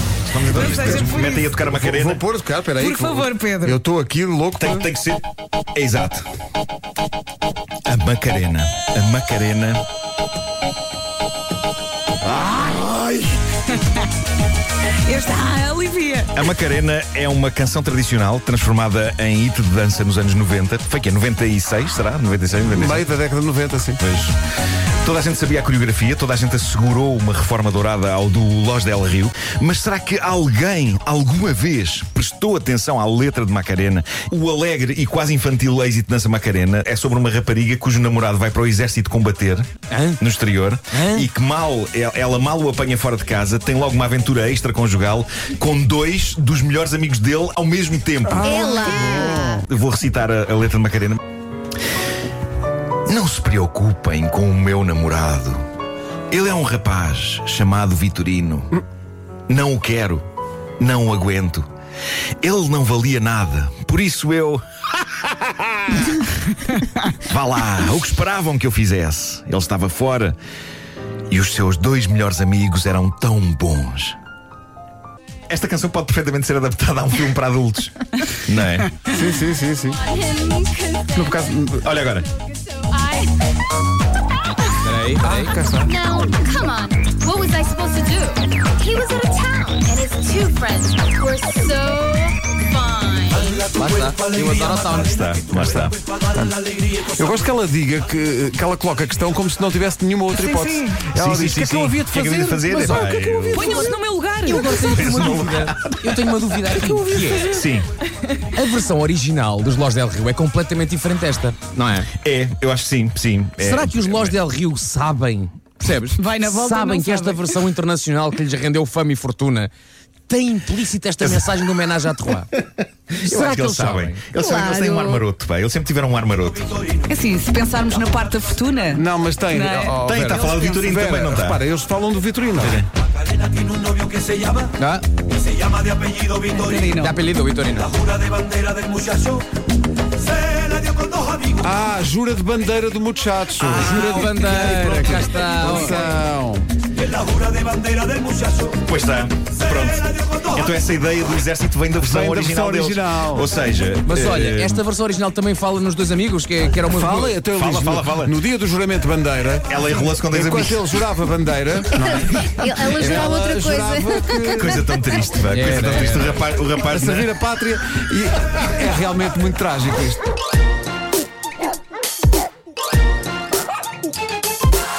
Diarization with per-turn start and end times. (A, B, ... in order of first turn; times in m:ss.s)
0:00.2-0:02.2 A
0:00.3-0:04.9 B
0:00.6-0:01.5 C
0:02.8-0:03.8 C
0:04.6-0:06.3 A
0:07.9-0:09.8 A
0:15.0-0:16.3 C
0:16.3-0:23.1 A
0:22.7-0:24.0 B
0:24.0-0:24.4 A
0:25.0-0:48.7 A
0:39.9-0:40.2 D
0:40.9-0:41.3 D
0:48.3-0:49.6 B
0:48.4-0:49.6 E
0:49.6-0:51.2 A
0:53.0-0:55.6 A
0:56.3-0:58.8 A
0:59.5-1:00.2 A
1:00.8-1:01.7 A
1:02.4-1:04.6 A
1:07.2-1:10.4 A
1:11.3-1:14.2 A
1:15.5-1:19.0 A
1:19.1-1:20.0 B
1:20.0-1:21.4 E
1:21.1-1:21.9 B
1:21.8-1:22.3 A
1:22.4-1:23.4 E
1:24.7-1:25.6 D
1:25.2-1:25.9 B
1:25.8-1:33.6 E
1:33.4-1:35.9 D
1:34.8-1:36.0 A
1:37.1-1:43.8 B
1:40.3-1:41.0 C
1:41.1-1:43.9 A
1:42.7-1:43.1 D
1:43.3-1:44.8 C
1:43.6-1:47.6 D
1:44.6-1:46.1 A
1:46.8-1:47.4 C
1:47.3-1:47.9 A
1:48.5-1:52.1 D
1:52.2-1:54.4 A
1:53.6-1:59.7 D
1:56.1-1:57.4 C
2:00.3-2:02.5 D
2:01.2-2:01.6 A
2:02.6-2:07.0 A
2:03.2-2:04.2 D
2:04.4-2:05.2 E
2:07.1-2:10.0 C
2:08.9-2:12.8 B
2:10.0-2:11.6 A
2:10.1-2:10.5 D
2:10.5-2:10.8 C
2:12.6-2:12.9 A
2:14.8-2:15.0 D
2:16.4-2:17.2 C
2:16.9-2:18.1 D
2:21.6-2:26.7 B
2:23.6-2:24.3 A
2:23.6-2:26.2 D
2:28.6-2:34.8 A
2:32.0-2:33.5 B
2:34.1-2:37.4 D
2:36.8-2:44.8 B
2:37.5-2:38.4 A
2:39.6-2:40.8 A
2:42.0-2:44.7 E
2:44.5-2:47.3 A
2:45.5-2:46.4 D
2:46.9-2:50.3 B